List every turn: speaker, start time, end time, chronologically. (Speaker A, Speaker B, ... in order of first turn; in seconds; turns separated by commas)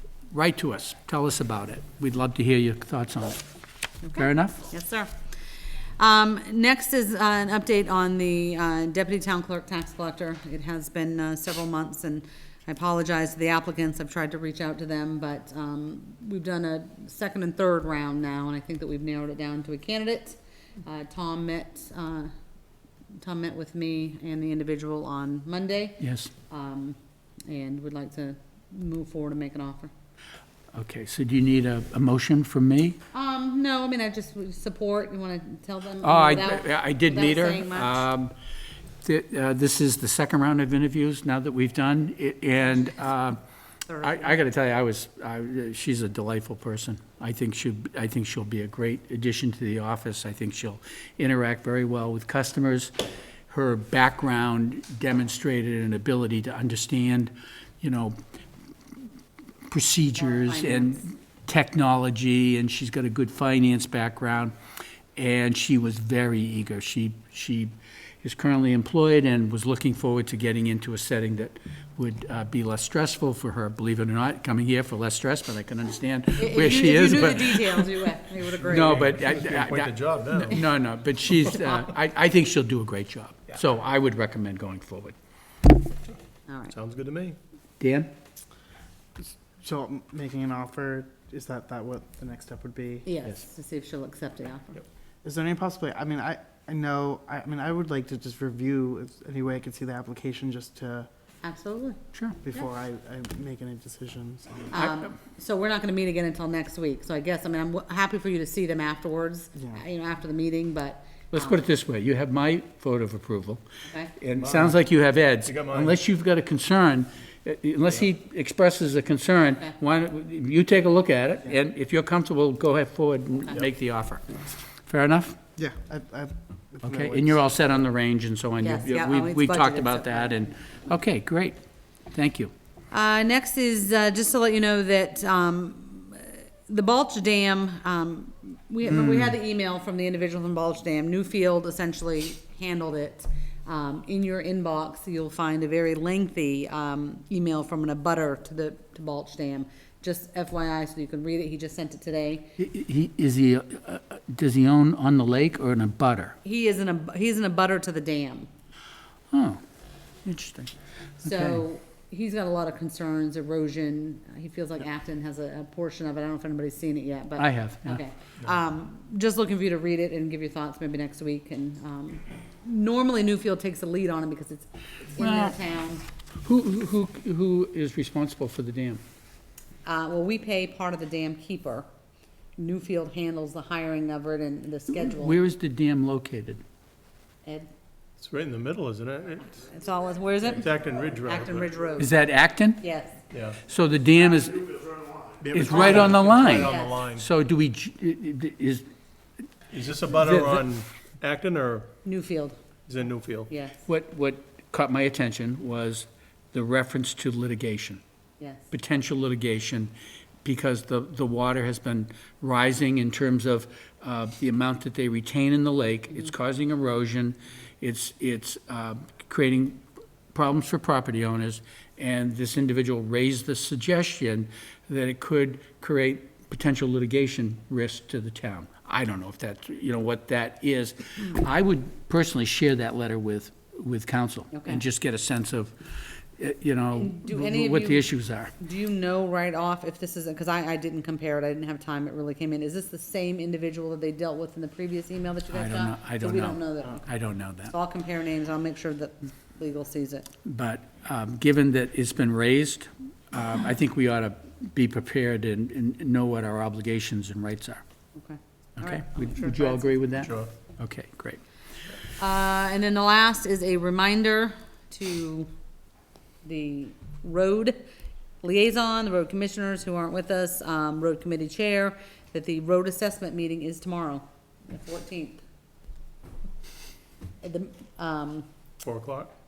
Speaker A: 0.3-3.4, Speaker B: 4.0-5.1, Speaker A: 4.2-4.7, Speaker B: 6.0-22.3, Speaker B: 23.2-29.9, Speaker A: 26.0-26.3, Speaker A: 30.7-33.0, Speaker B: 33.1-38.0, Speaker A: 36.0-38.3, Speaker A: 39.0-43.4, Speaker B: 43.9-44.4, Speaker A: 44.0-52.9, Speaker A: 53.5-58.1, Speaker A: 59.7-64.5, Speaker B: 60.1-61.0, Speaker A: 65.2-78.1, Speaker B: 76.4-79.1, Speaker C: 78.6-80.6, Speaker A: 78.7-85.2, Speaker B: 86.5-86.8, Speaker C: 86.7-87.4, Speaker A: 87.8-88.1, Speaker D: 89.2-93.1, Speaker B: 93.1-94.8, Speaker D: 95.2-101.1, Speaker B: 101.4-102.0, Speaker A: 102.1-102.4, Speaker D: 102.4-104.8, Speaker B: 104.7-111.7, Speaker A: 104.8-105.0, Speaker A: 111.3-113.6, Speaker B: 113.9-114.1, Speaker A: 114.2-124.3, Speaker C: 114.3-114.8, Speaker C: 115.5-116.0, Speaker A: 124.9-125.4, Speaker D: 125.6-127.7, Speaker A: 126.8-131.6, Speaker B: 128.6-130.5, Speaker A: 132.1-132.5, Speaker B: 132.9-152.6, Speaker A: 138.9-139.3, Speaker A: 152.6-156.4, Speaker B: 156.4-158.5, Speaker A: 159.3-159.6, Speaker A: 160.2-160.7, Speaker B: 161.2-176.0, Speaker A: 161.2-161.6, Speaker A: 167.4-168.0, Speaker A: 175.2-175.6, Speaker A: 176.4-179.0, Speaker B: 179.8-181.9, Speaker B: 182.6-185.4, Speaker A: 184.9-186.6, Speaker C: 188.2-189.6, Speaker B: 189.6-192.1, Speaker C: 190.6-191.7, Speaker A: 192.0-192.8, Speaker B: 192.8-193.2, Speaker C: 193.3-193.6, Speaker A: 193.6-194.9, Speaker C: 195.4-197.3, Speaker A: 195.5-198.9, Speaker B: 196.4-197.1, Speaker C: 199.7-201.9, Speaker A: 200.1-200.7, Speaker B: 202.1-202.6, Speaker C: 202.9-203.5, Speaker B: 203.5-203.8, Speaker A: 203.8-208.0, Speaker B: 208.4-208.7, Speaker A: 208.7-209.9, Speaker A: 210.4-238.6, Speaker B: 234.5-234.8, Speaker B: 236.9-247.1, Speaker A: 245.5-247.7, Speaker B: 247.7-250.3, Speaker A: 250.4-257.8, Speaker B: 258.1-260.2, Speaker A: 258.8-261.4, Speaker C: 260.2-260.5, Speaker B: 262.2-265.5, Speaker B: 266.4-267.8, Speaker B: 268.4-275.4, Speaker B: 277.4-278.5, Speaker C: 278.8-279.3